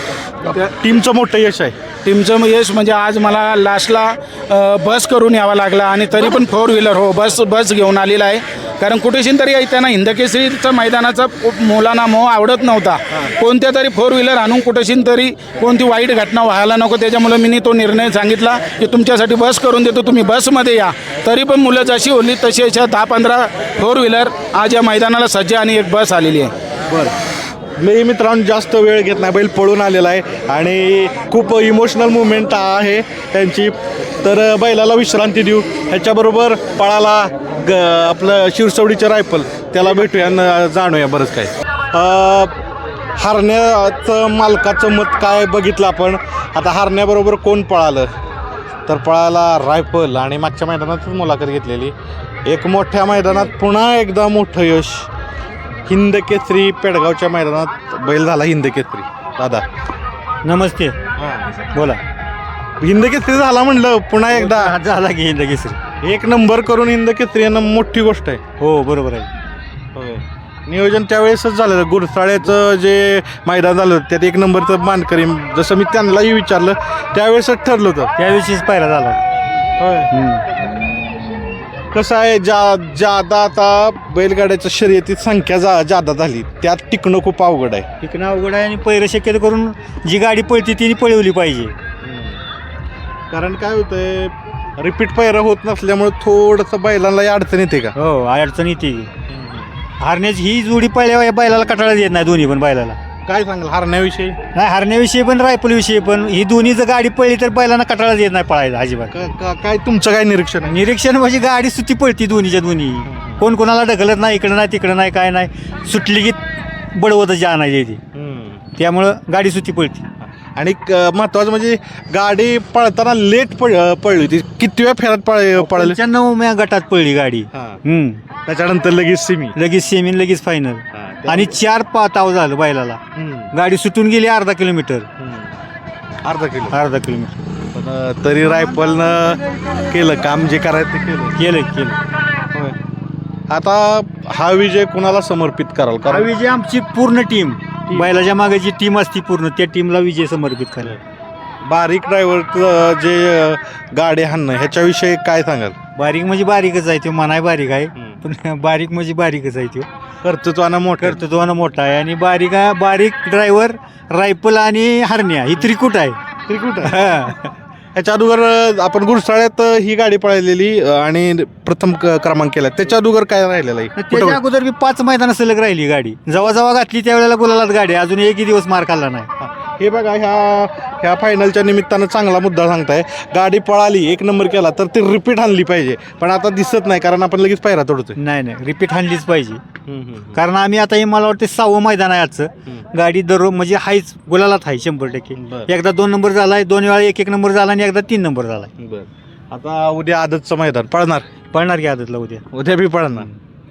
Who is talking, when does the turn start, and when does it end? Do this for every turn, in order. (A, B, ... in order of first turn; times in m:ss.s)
0:00.5-0:01.8 A
0:02.0-0:26.5 B
0:27.8-0:42.6 A
0:43.2-0:48.1 A
0:48.9-0:52.0 A
0:52.5-0:55.1 A
0:55.9-0:59.6 A
1:00.4-1:01.0 C
1:01.2-1:01.5 A
1:01.7-1:02.0 C
1:02.8-1:04.7 A
1:04.3-1:05.8 C
1:06.0-1:08.4 A
1:08.6-1:09.3 C
1:10.0-1:18.1 A
1:18.2-1:19.2 C
1:19.8-1:20.1 A
1:20.1-1:20.4 C
1:21.9-1:27.9 A
1:28.0-1:31.8 C
1:32.0-1:32.4 A
1:33.3-1:38.0 A
1:38.0-1:39.1 C
1:39.3-1:39.7 A
1:40.0-1:43.0 C
1:43.3-1:44.4 A
1:44.5-1:49.1 C
1:49.1-1:50.7 A
1:50.6-1:56.4 C
1:53.1-1:53.4 A
1:56.9-1:58.0 C
1:58.1-1:58.6 A
1:58.8-2:00.0 C
2:00.2-2:06.0 A
2:05.6-2:08.2 C
2:07.5-2:07.8 A
2:08.5-2:09.6 A
2:09.6-2:13.0 C
2:10.9-2:11.6 A
2:13.2-2:13.5 A
2:13.5-2:15.1 C
2:15.2-2:15.5 A
2:16.2-2:16.8 A
2:16.7-2:17.4 C
2:17.7-2:21.4 A
2:21.4-2:22.0 C
2:23.5-2:26.3 A
2:26.1-2:30.9 C
2:31.6-2:35.8 A
2:36.0-2:39.9 C
2:38.0-2:38.2 A
2:40.2-2:41.2 A
2:41.0-2:46.2 C
2:46.5-2:47.0 A
2:46.8-2:47.5 C
2:47.9-2:54.4 A
2:54.0-2:59.3 C
2:59.4-3:08.2 A
3:08.2-3:09.6 C
3:09.9-3:10.4 A
3:10.3-3:18.7 C
3:15.4-3:15.7 A
3:18.8-3:21.3 A
3:21.5-3:22.4 C
3:22.5-3:23.3 A